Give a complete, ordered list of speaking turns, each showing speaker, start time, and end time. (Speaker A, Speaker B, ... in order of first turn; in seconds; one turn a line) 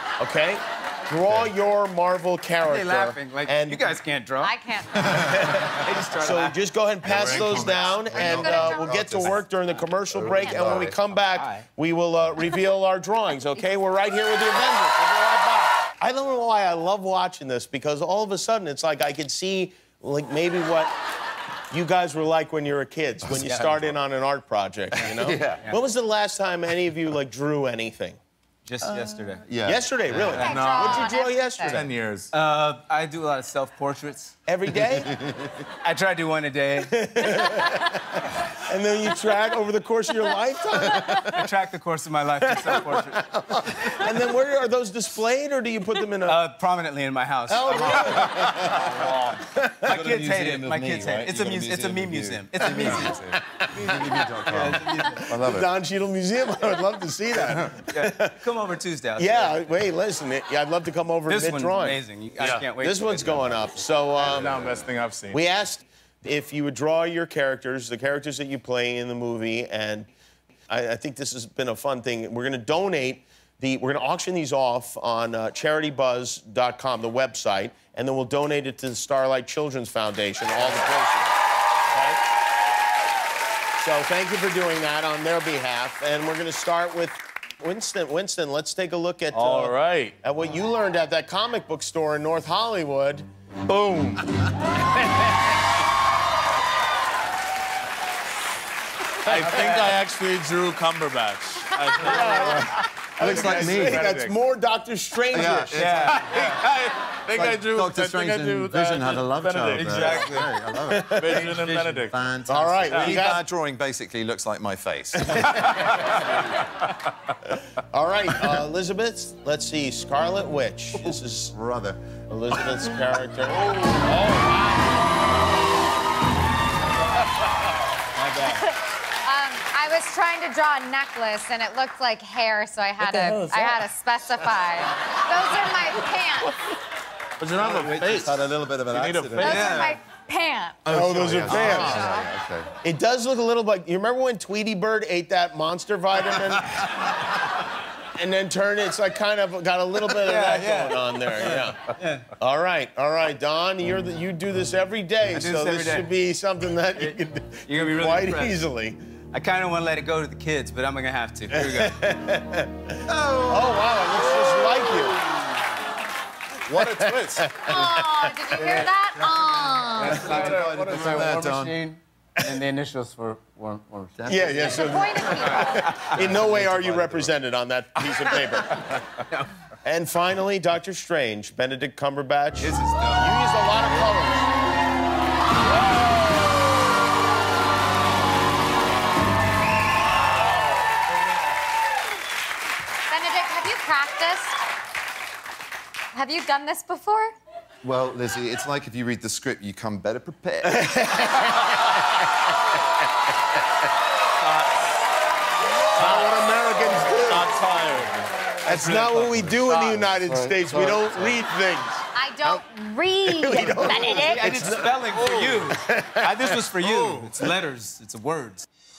Speaker A: 0.2-4.0
Speaker B: 2.6-4.6
Speaker C: 4.4-5.2
Speaker A: 5.1-20.9
Speaker B: 5.3-6.6
Speaker D: 7.0-9.4
Speaker E: 7.2-7.5
Speaker C: 8.1-9.0
Speaker B: 10.2-11.7
Speaker D: 10.2-10.9
Speaker C: 10.4-10.7
Speaker A: 21.7-28.2
Speaker D: 23.2-23.5
Speaker B: 23.4-23.9
Speaker D: 24.9-25.6
Speaker B: 28.6-29.4
Speaker D: 29.5-30.4
Speaker A: 29.6-31.9
Speaker B: 30.3-30.7
Speaker E: 30.4-32.3
Speaker C: 30.4-31.8
Speaker B: 32.3-34.3
Speaker A: 34.5-35.1
Speaker D: 35.1-35.5
Speaker B: 35.8-37.5
Speaker A: 36.9-41.5
Speaker B: 41.2-44.1
Speaker A: 42.4-46.4
Speaker B: 46.3-53.3
Speaker A: 47.5-49.9
Speaker D: 47.6-49.3
Speaker D: 49.8-55.7
Speaker A: 53.6-54.0
Speaker B: 53.9-55.3
Speaker A: 55.1-58.4
Speaker B: 57.9-59.6
Speaker A: 59.2-62.0
Speaker B: 61.3-63.6
Speaker E: 62.4-62.7
Speaker A: 62.8-64.8
Speaker E: 64.2-65.4
Speaker A: 65.3-70.1
Speaker A: 70.7-81.3
Speaker A: 81.9-82.2
Speaker A: 83.8-93.3
Speaker E: 89.3-90.2
Speaker E: 93.7-94.4
Speaker E: 99.3-104.4
Speaker B: 99.6-99.9
Speaker A: 102.0-105.9
Speaker D: 103.2-104.0
Speaker D: 105.3-106.4
Speaker E: 105.4-110.5
Speaker B: 105.7-106.7
Speaker D: 107.3-115.5
Speaker B: 109.8-110.5
Speaker A: 110.9-111.5
Speaker E: 111.1-112.2
Speaker B: 111.6-111.9
Speaker A: 112.5-113.4
Speaker E: 112.9-113.2
Speaker A: 115.2-116.0
Speaker E: 115.8-116.1
Speaker A: 117.5-121.5
Speaker D: 121.0-122.0
Speaker A: 122.3-124.8
Speaker B: 128.2-128.7
Speaker C: 128.6-136.5
Speaker B: 133.0-133.7
Speaker E: 133.3-133.7
Speaker E: 137.4-139.9
Speaker D: 137.6-140.0
Speaker C: 139.4-140.8
Speaker D: 140.8-142.7
Speaker A: 140.9-142.1
Speaker C: 141.6-142.3
Speaker A: 142.8-147.3
Speaker A: 148.2-159.0
Speaker B: 150.2-152.3
Speaker B: 155.3-156.1
Speaker B: 157.0-158.6
Speaker B: 159.3-161.9
Speaker A: 161.5-165.2
Speaker D: 163.1-164.8
Speaker E: 166.7-167.9
Speaker A: 166.7-168.3
Speaker C: 167.7-170.2
Speaker E: 168.6-168.9
Speaker B: 170.0-174.8
Speaker D: 170.0-171.8
Speaker E: 170.1-171.3
Speaker D: 174.2-175.1
Speaker A: 174.3-179.0
Speaker C: 174.7-175.9
Speaker B: 175.3-176.6
Speaker D: 176.1-177.3
Speaker A: 179.8-184.5
Speaker B: 182.6-183.3
Speaker C: 193.1-194.6
Speaker C: 196.1-197.3
Speaker D: 197.8-200.8
Speaker A: 200.6-202.1
Speaker A: 205.9-207.6
Speaker E: 206.0-206.2
Speaker E: 207.3-210.0
Speaker A: 208.6-212.6
Speaker D: 210.2-211.4
Speaker C: 212.2-214.4
Speaker A: 213.2-214.9
Speaker B: 214.1-218.7
Speaker E: 214.7-215.7
Speaker A: 215.6-216.5
Speaker E: 216.8-217.4